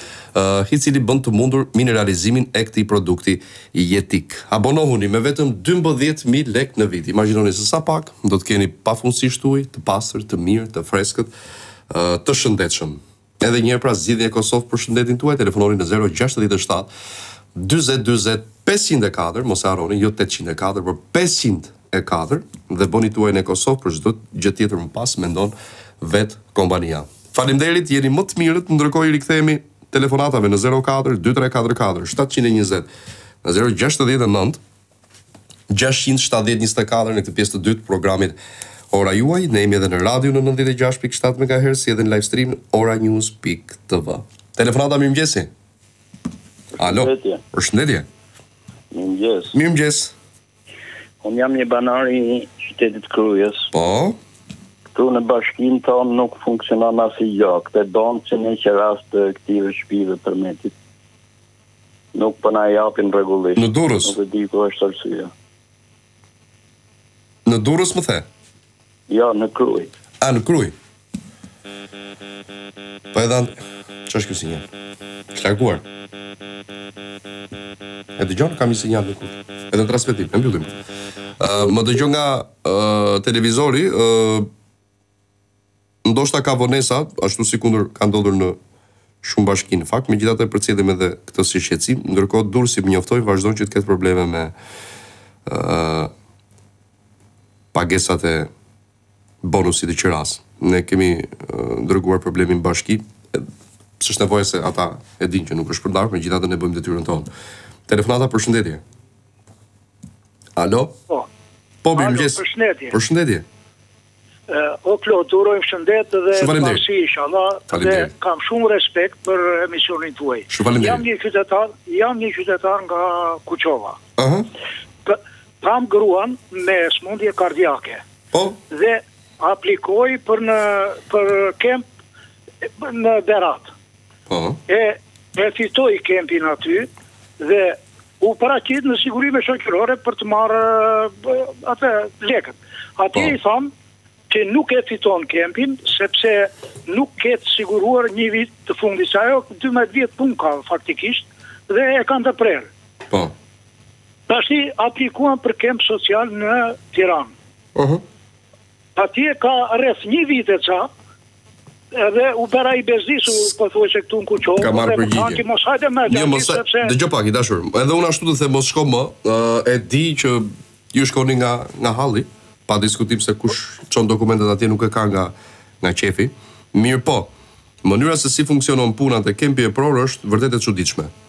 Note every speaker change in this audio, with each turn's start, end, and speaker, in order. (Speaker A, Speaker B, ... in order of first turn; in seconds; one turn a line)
Speaker A: 0.3-11.3
Speaker A: 11.9-16.9
Speaker A: 17.5-32.9
Speaker A: 33.4-34.6
Speaker A: 35.7-38.4
Speaker A: 38.9-45.5
Speaker B: 46.8-47.4
Speaker A: 46.8-48.0
Speaker B: 48.9-49.5
Speaker A: 49.5-50.1
Speaker B: 51.2-53.7
Speaker A: 53.7-54.1
Speaker B: 54.9-60.7
Speaker B: 62.1-65.3
Speaker A: 63.5-64.1
Speaker A: 67.5-68.2
Speaker B: 69.1-69.9
Speaker A: 70.2-70.7
Speaker A: 73.1-73.5
Speaker A: 74.1-74.6
Speaker A: 75.3-75.8
Speaker A: 78.2-80.7
Speaker A: 81.4-84.5
Speaker A: 86.0-88.6
Speaker A: 89.2-94.5
Speaker A: 95.5-96.1
Speaker A: 97.7-98.5
Speaker A: 99.4-103.5
Speaker A: 104.0-107.3
Speaker A: 107.9-108.8
Speaker A: 110.6-110.9
Speaker A: 111.8-113.5
Speaker C: 112.0-112.9
Speaker C: 114.5-124.0
Speaker A: 116.3-116.8
Speaker A: 117.7-118.1
Speaker A: 120.5-121.0
Speaker A: 124.2-124.5
Speaker C: 125.1-128.0
Speaker C: 128.7-131.8
Speaker C: 132.8-133.7
Speaker A: 134.3-134.6
Speaker C: 134.7-136.9
Speaker C: 137.4-143.7
Speaker C: 144.3-152.7
Speaker C: 154.3-157.3
Speaker A: 157.8-158.0
Speaker C: 159.0-160.9
Speaker C: 161.9-166.9
Speaker A: 164.6-165.4
Speaker A: 166.1-177.3
Speaker A: 177.8-181.1